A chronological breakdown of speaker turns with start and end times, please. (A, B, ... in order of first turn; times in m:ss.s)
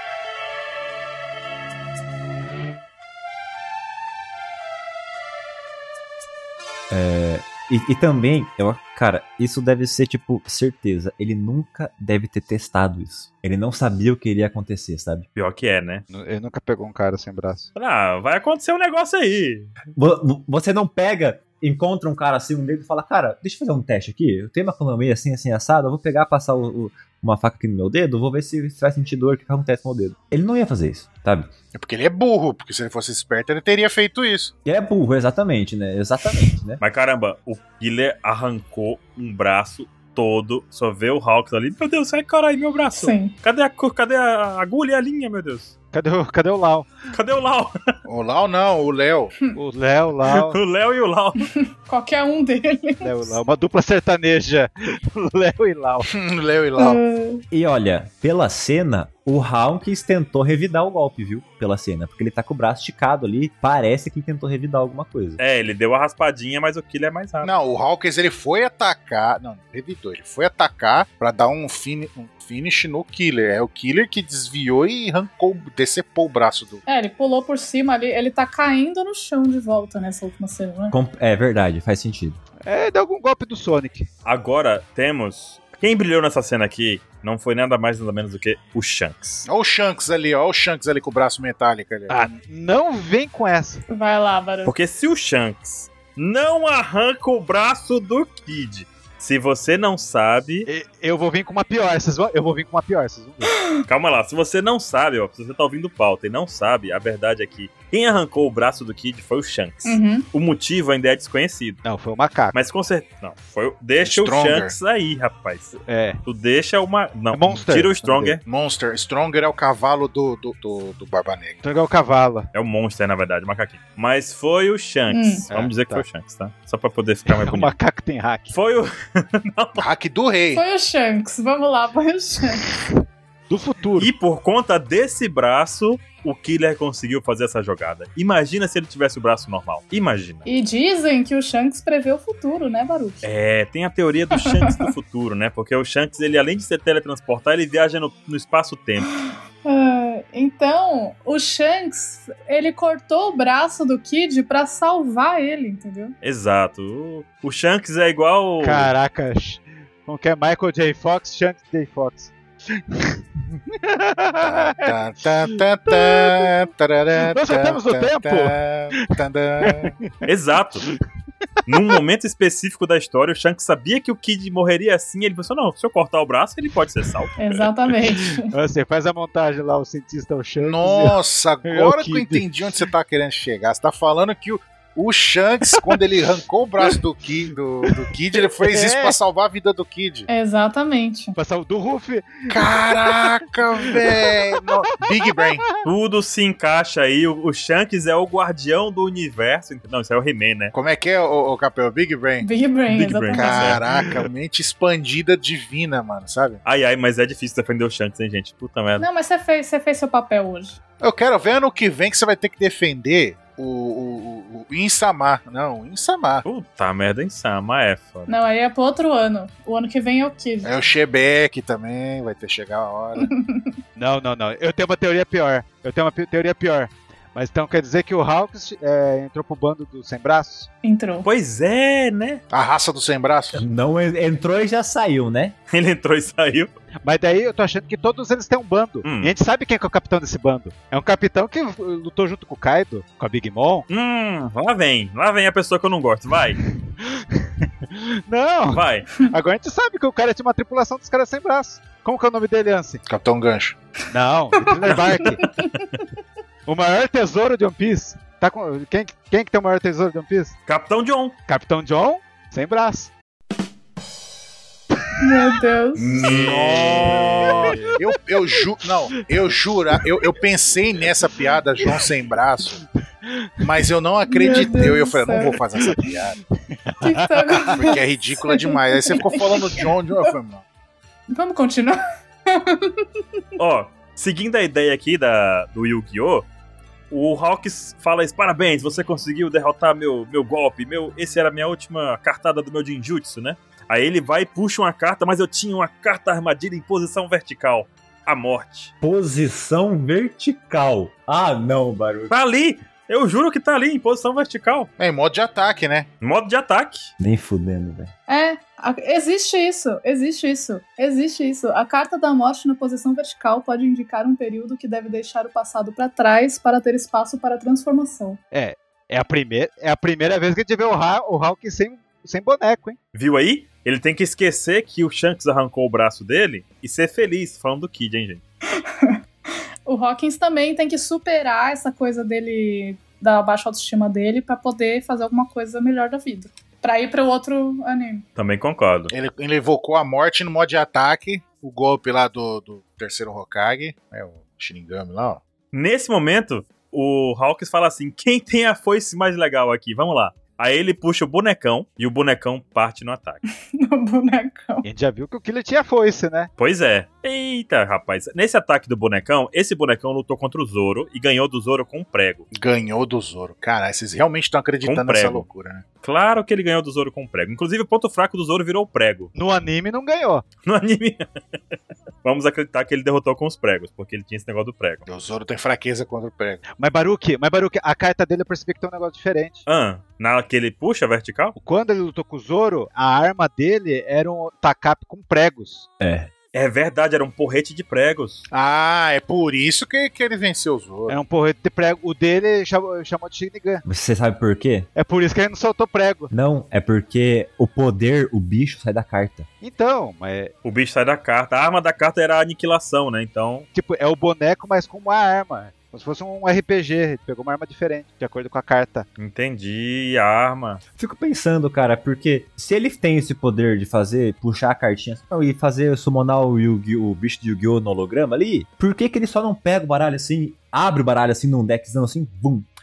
0:06.9-0:15.3 A
0:15.4-0:16.0 B
0:16.1-0:17.7 C
0:17.8-0:19.8 B
0:20.0-0:31.5 A
0:31.7-0:34.5 D
0:34.6-0:36.8 A
0:36.8-0:45.7 B
0:43.0-0:43.3 E
0:45.9-0:46.9 C
0:47.1-0:47.8 B
0:48.1-0:49.4 D
0:49.5-0:50.6 C
0:50.3-0:51.5 B
0:51.6-0:53.4 E
0:53.0-0:56.1 C
0:56.1-0:57.0 D
0:56.8-0:57.4 E
0:57.5-1:05.4 A
1:05.4-1:07.5 B
1:07.4-1:16.8 D
1:16.9-1:21.0 E
1:20.9-1:22.4 A
1:22.6-1:24.1 C
1:24.2-1:29.5 B
1:29.5-1:32.2 D
1:32.1-1:33.8 C
1:33.9-1:34.8 E
1:34.6-1:40.7 B
1:40.7-1:43.6 C
1:43.9-1:51.8 B
1:49.8-1:50.3 E
1:51.8-1:52.6 C
1:52.5-1:58.4 B
1:54.0-1:54.8 D
1:55.8-1:56.2 C
1:57.3-1:58.4 C
1:58.4-2:01.6 D
2:01.6-2:02.5 C
2:02.5-2:07.7 B
2:05.1-2:05.5 E
2:05.5-2:06.0 C
2:07.3-2:08.5 C
2:08.5-2:09.9 B
2:09.8-2:10.6 D
2:10.5-2:12.7 E
2:13.5-2:14.1 C
2:14.0-2:20.5 B
2:20.5-2:23.3 E
2:23.2-2:29.1 B
2:24.4-2:24.9 E
2:29.6-2:36.2 E
2:36.2-2:38.9 B
2:38.6-2:44.9 C
2:44.4-2:50.0 D
2:45.9-2:46.5 C
2:47.2-2:50.2 C
2:50.2-2:50.9 B
2:51.7-2:57.6 B
2:57.4-2:58.5 E
2:58.4-3:02.5 C
3:00.6-3:10.3 D
3:07.9-3:09.2 C
3:10.3-3:11.4 E
3:11.4-3:13.4 C
3:12.5-3:15.6 D
3:13.9-3:15.8 C
3:15.8-3:20.7 B
3:20.7-3:22.5 D
3:22.4-3:23.8 E
3:22.9-3:23.8 B
3:23.3-3:26.6 D
3:23.9-3:24.2 C
3:26.6-3:29.1 B
3:29.0-3:30.8 E
3:31.0-3:36.4 D
3:36.4-3:38.3 B
3:38.3-3:40.7 E
3:40.6-3:43.3 D
3:43.2-3:43.7 E
3:44.0-3:50.7 C
3:50.8-3:51.3 E
3:51.2-3:52.4 B
3:52.5-3:53.6 D
3:53.5-3:55.6 A
3:55.7-3:56.7 B
3:57.0-4:03.9 C
3:59.0-3:59.3 B
4:03.9-4:06.6 B
4:06.6-4:13.0 C
4:08.7-4:09.1 B
4:13.1-4:13.8 D
4:14.1-4:15.5 C
4:14.9-4:15.5 B
4:15.3-4:15.8 E
4:16.7-4:20.6 C
4:20.7-4:21.4 B
4:21.5-4:23.1 C
4:25.2-4:26.2 E
4:26.1-4:32.8 D
4:26.1-4:27.8 B
4:27.4-4:28.0 C
4:29.1-4:30.0 C
4:33.3-4:33.6 C
4:33.6-4:36.4 D
4:34.3-4:35.6 E
4:35.8-4:37.9 C
4:37.0-4:39.8 E
4:37.8-4:40.6 D
4:41.3-4:43.1 E
4:43.6-4:46.5 B
4:47.1-4:58.9 B
4:59.0-5:02.3 A
5:02.3-5:04.9 B
5:05.0-5:06.1 D
5:06.2-5:07.1 B
5:07.2-5:08.1 A
5:08.3-5:18.4 E
5:18.5-5:23.0 C
5:23.1-5:28.4 B
5:28.8-5:29.2 E
5:29.9-5:38.2 E
5:38.4-5:39.1 B
5:39.1-5:45.4 D
5:45.7-5:53.4 B
5:53.7-5:54.9 E
5:54.8-5:56.5 C
5:56.6-6:02.5 B
6:02.6-6:05.8 D
6:04.8-6:05.5 B
6:06.0-6:09.3 B
6:09.3-6:10.4 C
6:10.6-6:11.3 B
6:12.2-6:15.1 B
6:15.1-6:16.6 D
6:16.8-6:19.6 C
6:19.7-6:21.6 B
6:21.6-6:25.9 C
6:26.0-6:26.3 A
6:26.5-6:28.4 B
6:28.5-6:31.2 D
6:31.1-6:33.8 C
6:33.8-6:34.9 A
6:35.0-6:36.3 C
6:36.3-6:39.5 A
6:39.6-6:40.5 C
6:40.6-6:43.7 B
6:43.7-6:49.1 C
6:49.2-6:50.8 B
6:51.0-7:02.7 A